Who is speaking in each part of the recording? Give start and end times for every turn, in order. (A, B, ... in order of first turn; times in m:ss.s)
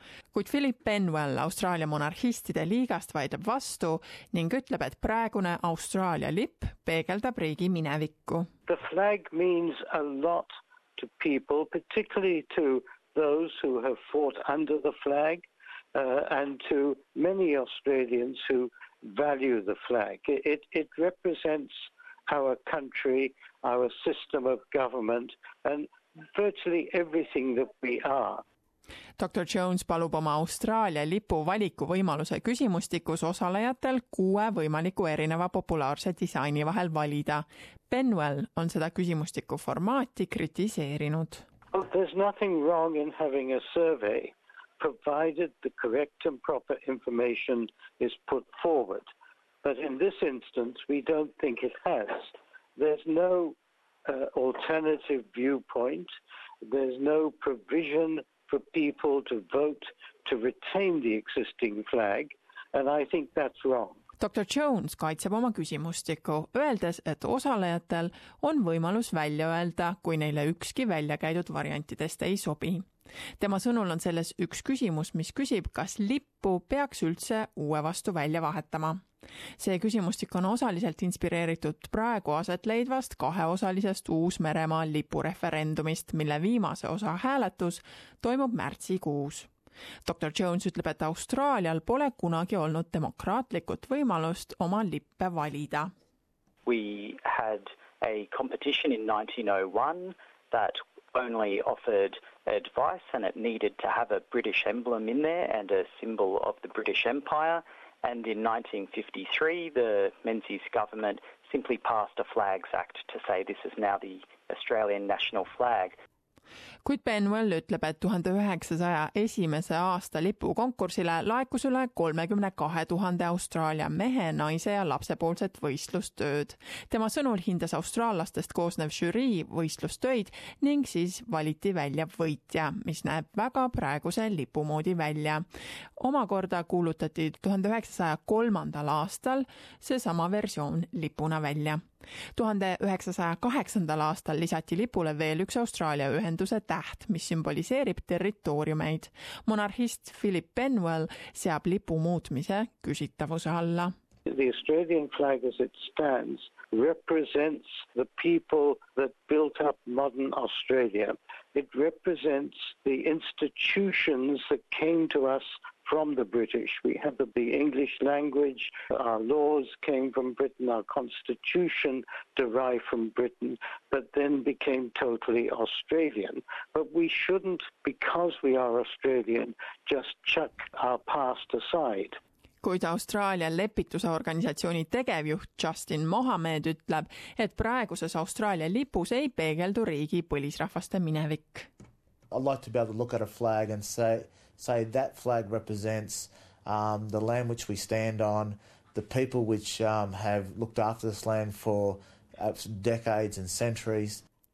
0:00.3-0:08.5 A
0:08.7-0:28.4 B
0:29.2-0:41.4 A
0:41.7-0:49.0 B
0:49.6-0:56.1 B
0:56.6-1:04.0 B
1:04.2-1:12.8 A
1:13.4-1:19.0 A
1:19.6-1:29.5 A
1:30.0-1:35.9 A
1:36.6-1:55.9 C
1:56.8-2:15.4 A
2:16.0-2:21.8 A
2:22.3-2:33.9 A
2:34.2-3:02.2 B
3:02.6-3:11.7 A
3:12.3-3:24.2 D